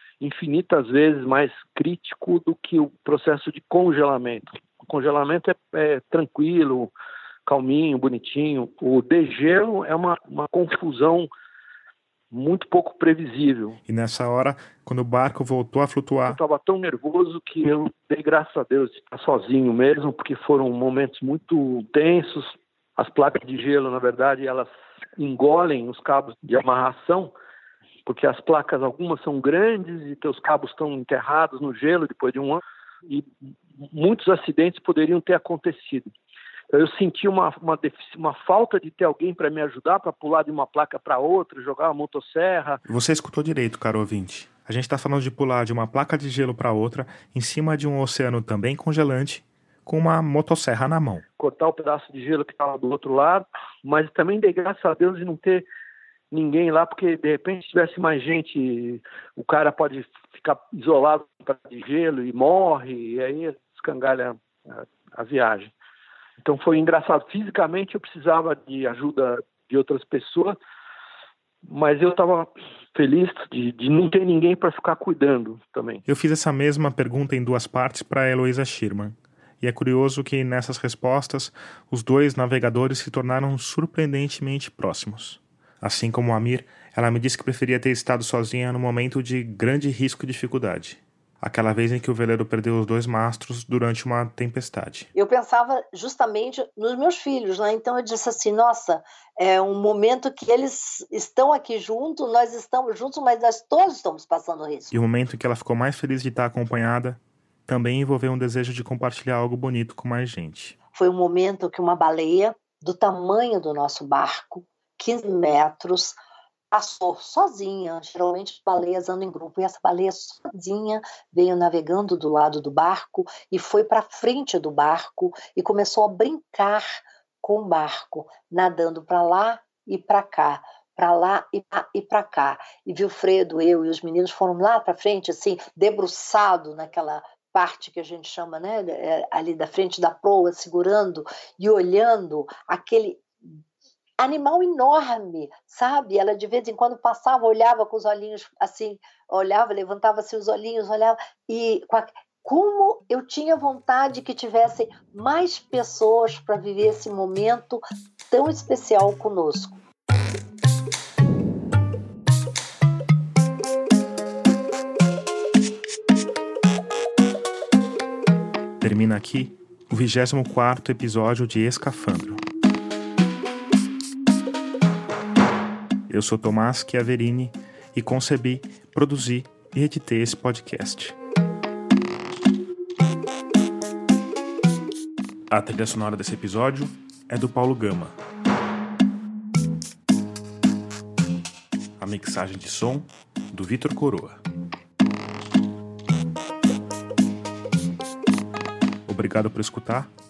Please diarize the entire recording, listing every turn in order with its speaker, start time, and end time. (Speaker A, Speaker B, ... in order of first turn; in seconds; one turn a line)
Speaker A: 0.2-6.9
Speaker A: 7.5-11.3
Speaker A: 12.3-13.8
Speaker B: 13.9-16.4
Speaker A: 16.3-27.3
Speaker A: 28.1-36.1
Speaker A: 36.7-42.8
Speaker B: 42.9-51.2
Speaker A: 51.4-55.6
Speaker A: 56.3-65.7
Speaker A: 66.4-70.5
Speaker A: 71.6-76.0
Speaker B: 76.1-95.1
Speaker C: 95.1-104.9
Speaker B: 104.9-110.8
Speaker C: 110.9-116.2
Speaker C: 116.7-143.6
Speaker C: 144.2-159.8
Speaker B: 168.8-172.4
Speaker B: 176.1-181.2
Speaker B: 185.5-188.2
Speaker B: 192.0-194.4
Speaker B: 199.1-200.1